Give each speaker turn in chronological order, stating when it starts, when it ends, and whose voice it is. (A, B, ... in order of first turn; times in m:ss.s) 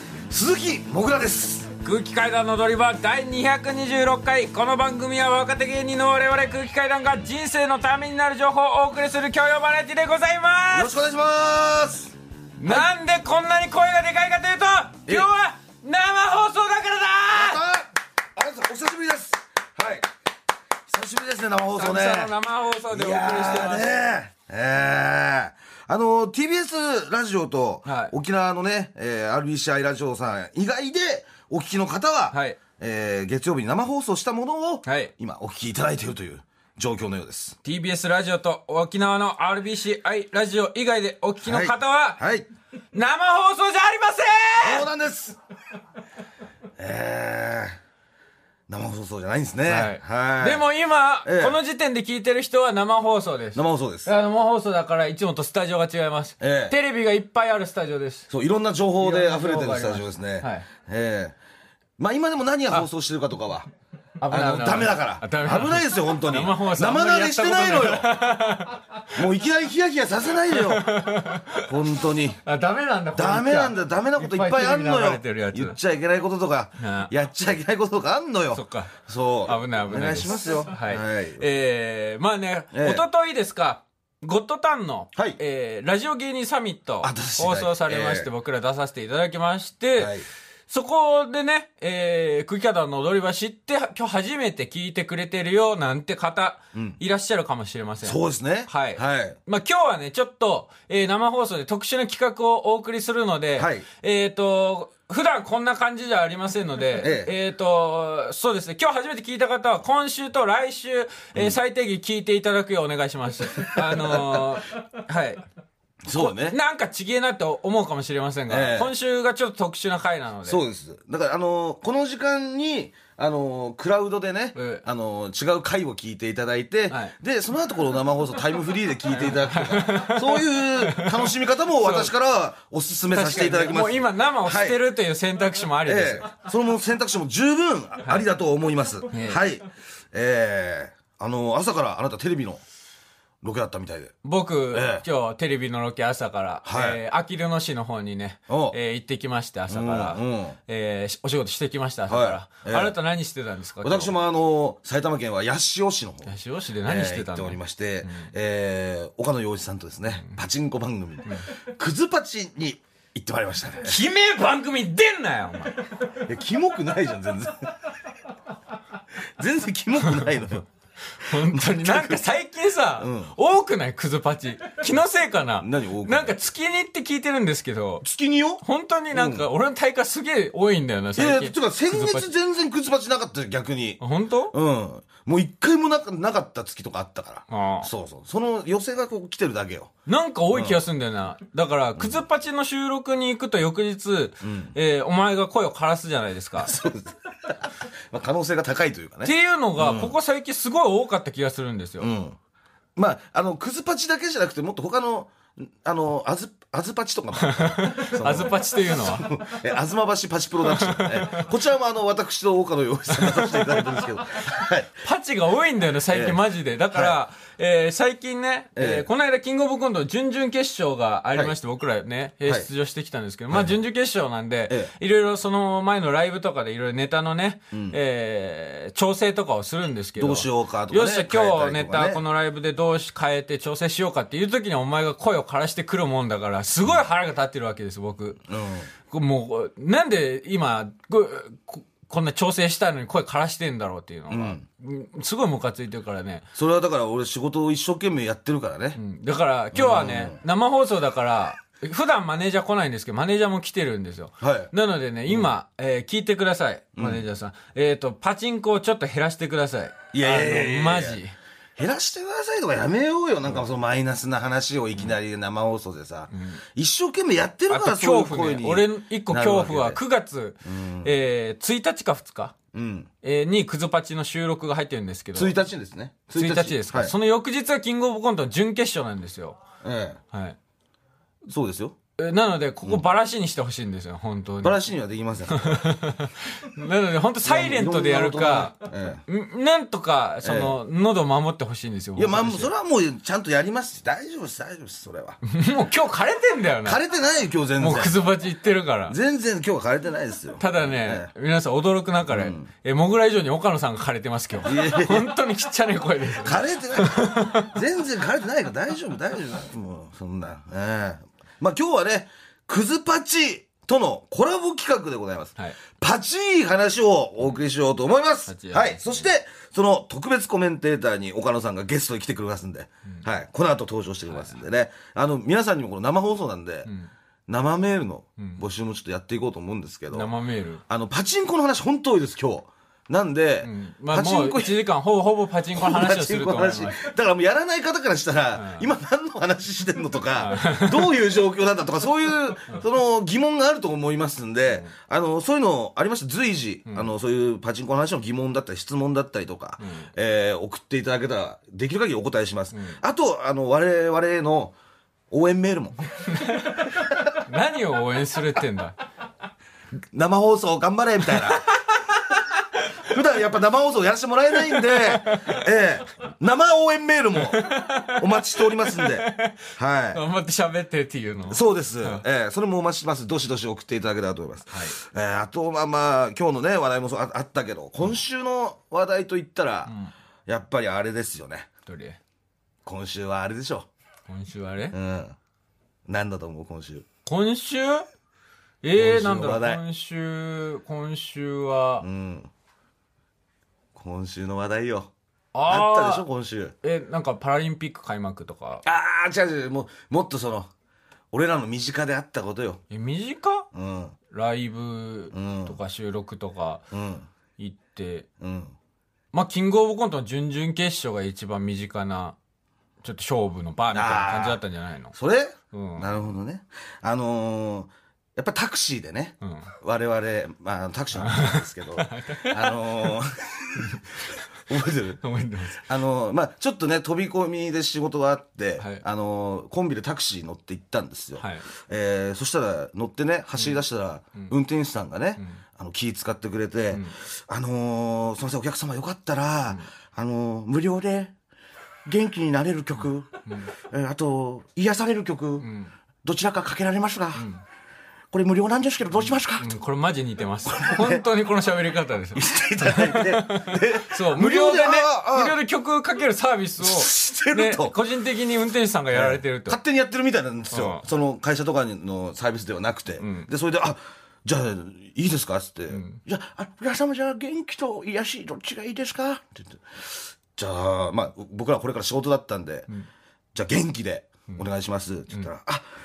0:00.3-0:01.7 A
0:01.8-0:10.9 B
0:10.7-0:12.1 A
0:12.6-0:17.6 B
0:17.3-0:20.1 A
0:20.9-0:22.3 A
0:21.8-0:24.0 B
0:22.9-0:37.6 A
0:27.8-0:28.1 B
0:32.3-0:32.6 B
0:34.8-0:35.1 B
0:37.6-0:42.2 B
0:41.4-0:42.4 A
0:42.9-0:44.9 B
0:44.6-0:45.4 A
0:46.8-0:47.8 A
0:48.7-0:50.6 A
0:49.6-0:58.3 B
0:51.2-0:51.6 A
0:53.5-0:54.1 A
0:56.4-0:56.7 A
0:58.3-1:01.3 A
0:59.0-1:00.7 B
1:02.0-1:03.7 A
1:04.2-1:09.0 B
1:04.3-1:08.1 A
1:09.1-1:12.4 A
1:10.5-1:11.7 B
1:12.4-1:15.8 B
1:13.1-1:21.4 A
1:16.8-1:17.1 B
1:18.5-1:18.9 B
1:19.4-1:30.1 B
1:22.7-1:23.0 A
1:27.0-1:28.3 A
1:30.0-1:30.2 A
1:30.7-1:55.4 B
1:38.0-1:39.4 A
1:43.6-1:43.8 A
1:47.0-1:47.3 A
1:53.9-1:54.2 A
1:56.0-1:56.6 A
1:56.1-2:00.6 B
1:58.5-1:58.9 A
2:00.4-2:14.8 A
2:04.5-2:04.8 B
2:06.9-2:07.1 B
2:09.2-2:12.1 B
2:13.1-2:16.3 B
2:15.8-2:22.6 A
2:19.1-2:19.4 B
2:23.4-2:24.2 A
2:24.2-2:34.1 B
2:24.7-2:25.0 A
2:26.6-2:27.0 A
2:28.5-2:28.8 A
2:29.7-2:30.6 A
2:32.1-2:33.0 A
2:33.8-2:36.3 A
2:36.2-2:38.3 B
2:36.8-2:44.0 A
2:43.8-2:45.9 B
2:46.2-2:47.7 A
2:49.4-2:50.6 A
2:51.2-2:58.0 B
2:51.3-2:52.2 A
2:53.0-2:53.3 A
2:55.6-2:56.4 A
2:58.0-2:59.4 A
2:58.6-3:02.3 B
3:01.2-3:04.0 A
3:04.0-3:04.5 B
3:04.5-3:09.9 A
3:07.5-3:07.9 B
3:10.1-3:16.7 B
3:10.5-3:10.8 A
3:14.4-3:14.7 A
3:16.6-3:20.1 A
3:19.2-3:22.1 B
3:22.0-3:22.4 A
3:23.0-3:35.0 A
3:27.4-3:29.4 B
3:30.6-3:31.4 B
3:33.1-3:33.8 B
3:35.0-3:58.4 B
3:36.1-3:36.4 A
3:38.8-3:39.1 A
3:43.5-3:43.8 A
3:47.7-3:48.0 A
3:50.2-3:52.2 A
3:58.5-3:58.9 A
3:59.1-4:06.4 B
4:04.3-4:04.6 A
4:06.5-4:09.0 A
4:09.0-4:21.3 B
4:09.7-4:10.4 A
4:14.4-4:14.7 A
4:17.0-4:17.2 A
4:20.1-4:21.2 A
4:21.8-4:30.0 A
4:26.3-4:26.6 B
4:27.7-4:32.5 B
4:30.6-4:31.1 A
4:32.7-4:33.1 A
4:33.2-4:35.6 B
4:35.3-4:37.1 A
4:36.3-4:39.6 B
4:39.8-4:40.2 A
4:40.3-4:40.6 B
4:41.5-4:41.9 A
4:42.2-4:44.8 B
4:44.6-4:45.8 A
4:45.5-4:48.8 B
4:47.4-4:49.2 A
4:49.3-4:52.7 B
4:50.4-4:50.8 A
4:52.2-4:55.4 A
4:55.4-4:57.0 B
4:56.8-4:58.2 A
4:57.8-4:59.2 B
4:59.1-5:01.3 A
5:00.6-5:07.7 B
5:02.3-5:02.7 A
5:04.6-5:05.3 A
5:06.4-5:26.9 A
5:18.5-5:19.2 B
5:24.3-5:24.6 B
5:26.8-5:27.1 B
5:27.5-5:30.3 A
5:30.1-5:30.8 B
5:30.9-5:34.8 A
5:33.6-5:37.0 B
5:35.7-5:54.7 A
5:38.6-5:38.9 B
5:40.4-5:41.1 B
5:49.8-5:50.1 B
5:55.3-5:56.3 A
5:56.3-5:59.0 B
6:00.1-6:01.7 A
6:03.0-6:10.2 A
6:04.8-6:05.6 B
6:07.4-6:09.6 B
6:10.1-6:12.2 B
6:11.5-6:19.9 A
6:14.7-6:15.0 B
6:19.9-6:20.1 B
6:20.5-6:21.7 A
6:21.9-6:22.2 B
6:22.8-6:23.9 A
6:24.3-6:24.9 B
6:24.9-6:25.3 A
6:26.1-6:27.0 A
6:27.2-6:28.1 B
6:28.8-6:32.0 B
6:29.0-6:29.8 A
6:32.0-6:32.5 A
6:33.9-6:35.1 A
6:35.5-6:36.2 B
6:35.7-6:36.7 A
6:36.8-6:38.8 B
6:38.8-6:40.7 A
6:41.3-6:42.8 A
6:42.9-6:43.6 B
6:43.7-6:44.1 A
6:44.3-6:46.8 B
6:45.3-6:45.8 A
6:46.9-6:47.3 A
6:47.6-6:48.2 B
6:48.4-6:48.7 A
6:49.3-6:52.4 B
6:53.0-6:55.1 B
6:53.9-6:54.6 A
6:55.1-7:03.9 A
6:55.7-6:56.1 B
7:01.2-7:02.7 B
7:04.7-7:05.2 A
7:05.2-7:05.8 B
7:05.8-7:21.3 A
7:08.8-7:09.0 B
7:11.4-7:11.6 B
7:22.0-7:25.7 A
7:23.5-7:23.7 B
7:25.6-7:25.9 B
7:26.2-7:27.5 A
7:27.4-7:27.6 B
7:28.3-7:29.8 A
7:29.5-7:39.8 B
7:30.6-7:31.2 A
7:32.3-7:35.6 A
7:36.8-7:38.0 A
7:39.1-7:52.9 A
7:40.7-7:41.0 B
7:43.2-7:43.5 B
7:45.9-7:46.2 B
7:53.5-7:55.8 A